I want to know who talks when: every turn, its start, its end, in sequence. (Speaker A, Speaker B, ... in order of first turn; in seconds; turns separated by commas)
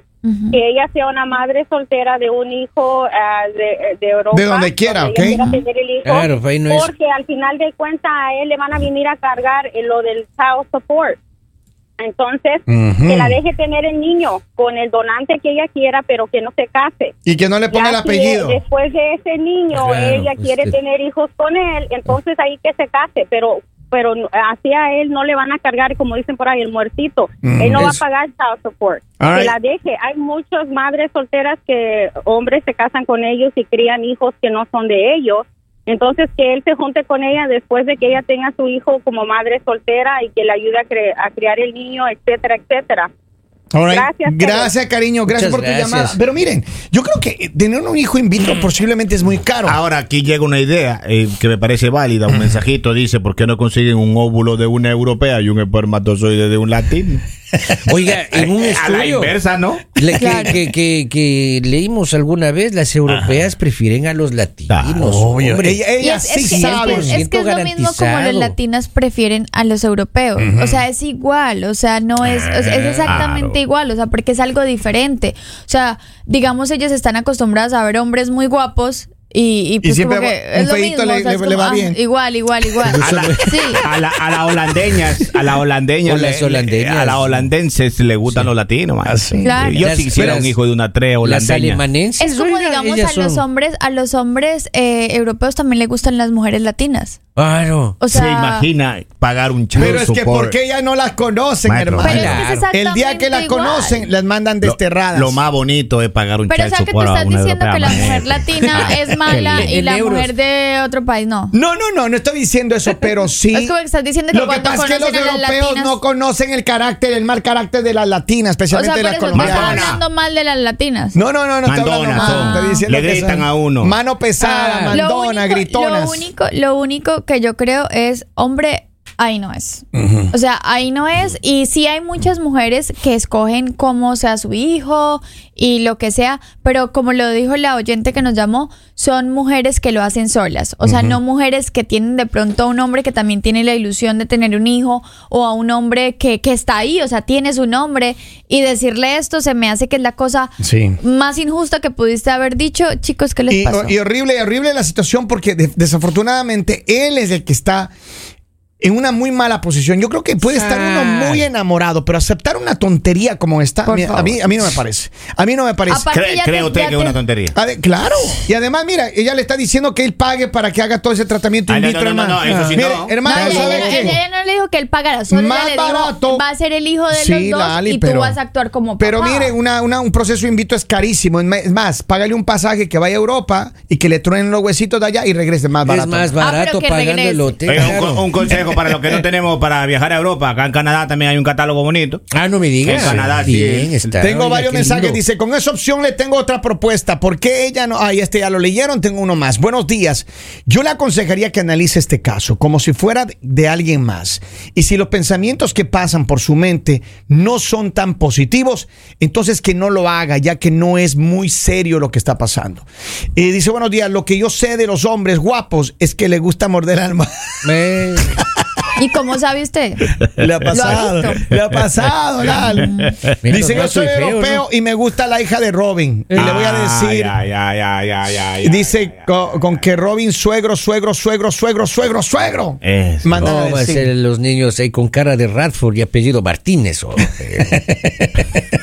Speaker A: 0.2-0.6, Speaker B: 0.5-11.2, Speaker C: 4.3-5.5, Speaker A: 5.2-5.6, Speaker D: 6.0-6.9, Speaker B: 12.0-17.1, Speaker C: 12.7-13.4, Speaker C: 17.3-18.6, Speaker B: 17.7-43.1, Speaker D: 19.7-20.8, Speaker C: 27.4-28.0, Speaker D: 27.7-28.0, Speaker C: 29.2-29.6, Speaker C: 43.7-49.8, Speaker B: 43.9-44.7, Speaker D: 45.3-46.2, Speaker E: 49.6-57.2, Speaker C: 52.3-52.6, Speaker D: 57.9-59.4, Speaker E: 58.3-60.0, Speaker D: 60.0-68.5, Speaker A: 60.1-60.6, Speaker E: 64.7-65.0, Speaker C: 65.0-67.2, Speaker A: 66.0-83.8, Speaker C: 70.4-70.8, Speaker D: 72.2-73.2, Speaker E: 73.1-73.6, Speaker C: 79.8-82.0, Speaker D: 82.9-83.6, Speaker E: 82.9-91.8, Speaker D: 84.9-85.4, Speaker D: 86.0-87.5, Speaker D: 88.2-88.5, Speaker C: 89.0-90.5, Speaker A: 89.4-89.9, Speaker D: 89.8-90.6, Speaker D: 91.2-93.4, Speaker A: 92.2-97.2, Speaker D: 97.4-98.0, Speaker A: 98.0-98.7, Speaker E: 98.1-100.6, Speaker C: 99.8-105.4, Speaker E: 101.7-102.4, Speaker A: 102.0-104.1, Speaker D: 102.3-102.6, Speaker E: 104.6-109.3, Speaker A: 106.5-111.5, Speaker D: 108.5-110.3, Speaker C: 111.5-113.8, Speaker A: 113.5-116.0, Speaker C: 114.3-119.8, Speaker A: 118.7-121.2, Speaker E: 119.3-120.0, Speaker C: 121.1-126.3, Speaker E: 121.7-124.0, Speaker A: 122.1-122.9, Speaker D: 124.4-125.0, Speaker A: 124.9-153.9, Speaker C: 129.9-130.3, Speaker C: 140.8-141.2, Speaker C: 150.6-151.0, Speaker C: 153.5-157.9, Speaker C: 158.8-166.1, Speaker D: 160.4-161.5, Speaker A: 163.8-164.4, Speaker A: 165.9-167.2, Speaker E: 166.1-167.6, Speaker C: 167.6-174.2, Speaker E: 171.7-173.3, Speaker D: 172.4-174.2, Speaker A: 173.2-179.6, Speaker C: 175.3-176.5, Speaker C: 177.1-178.4, Speaker C: 179.0-186.3, Speaker D: 185.8-188.8, Speaker A: 186.4-187.9, Speaker E: 187.7-192.2, Speaker D: 192.3-195.2, Speaker E: 192.8-194.2, Speaker C: 194.2-217.6, Speaker D: 217.6-218.4, Speaker A: 219.0-220.0, Speaker C: 220.4-222.9, Speaker A: 220.7-221.4, Speaker A: 222.4-223.2, Speaker D: 223.4-224.6, Speaker C: 223.5-227.4, Speaker D: 226.3-226.7, Speaker E: 226.4-229.3, Speaker C: 228.6-234.1, Speaker E: 232.8-233.5, Speaker D: 233.3-238.5